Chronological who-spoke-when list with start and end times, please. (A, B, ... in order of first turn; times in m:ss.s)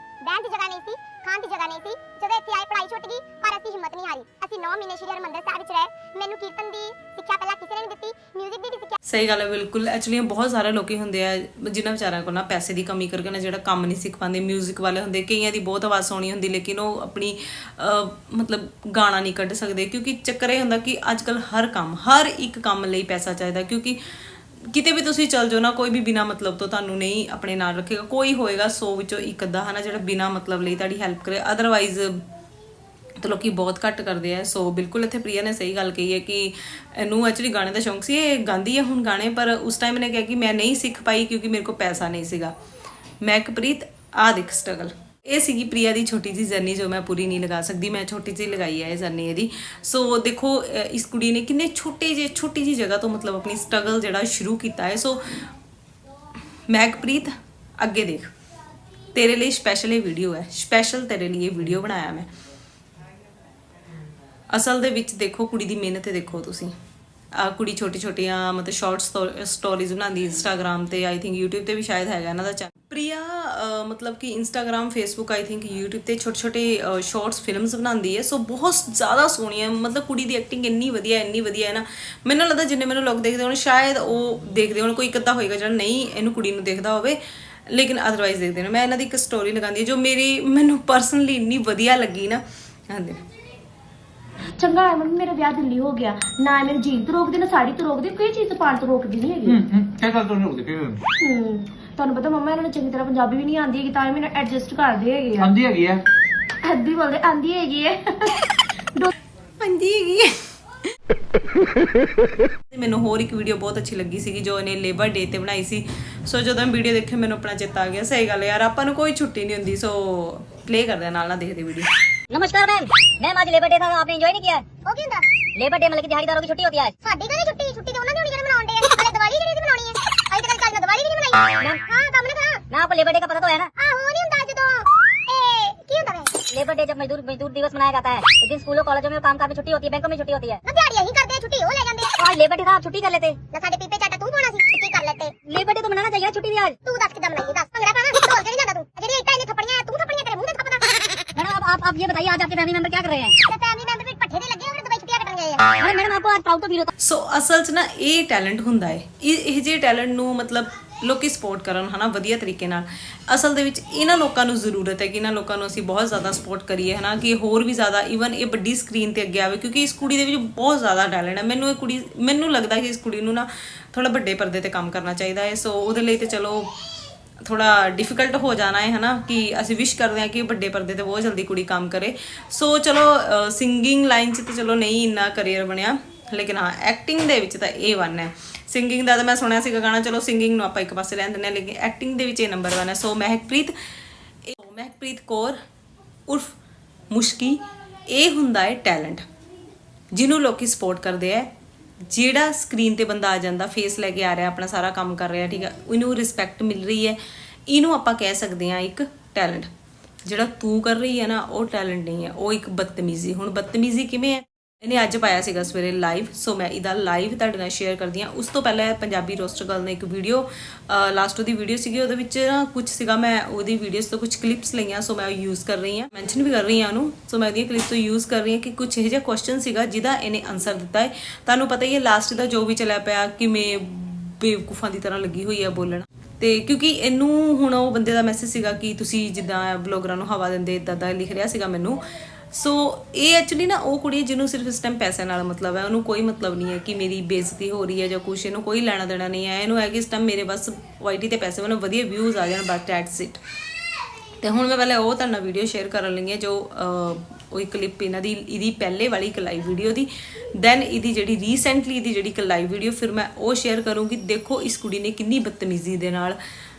0:00.2-0:09.0 A
0:09.1-0:24.0 B
0:24.7-0:32.2 B
0:33.2-0:42.5 B
0:43.2-0:55.2 B
0:56.7-0:58.3 B
0:59.2-1:02.3 B
1:04.5-1:06.7 B
1:07.4-1:27.2 B
1:27.7-1:33.2 B
1:34.6-1:39.6 C
1:39.5-1:41.0 D
1:41.2-1:45.6 C
1:45.4-1:46.0 D
1:46.6-1:48.4 C
1:49.6-1:50.3 B
1:52.7-2:01.9 B
2:02.3-2:04.6 E
2:04.9-2:05.3 A
2:05.6-2:06.9 E
2:07.0-2:12.6 A
2:12.7-2:13.7 E
2:13.8-2:16.4 A
2:16.5-2:20.6 E
2:20.6-2:22.1 A
2:22.2-2:23.4 E
2:23.5-2:25.3 A
2:25.5-2:26.7 E
2:26.8-2:31.2 A
2:31.4-2:33.3 E
2:33.5-2:35.9 A
2:35.8-2:36.9 E
2:37.0-2:56.7 B
2:57.4-3:13.7 B
3:14.5-3:15.6 B
3:17.1-3:19.2 B
3:20.1-3:21.5 B
3:22.1-3:27.2 B
3:27.7-3:29.7 B
3:30.3-4:02.0 B
4:02.5-4:13.4 B
4:14.4-4:26.4 B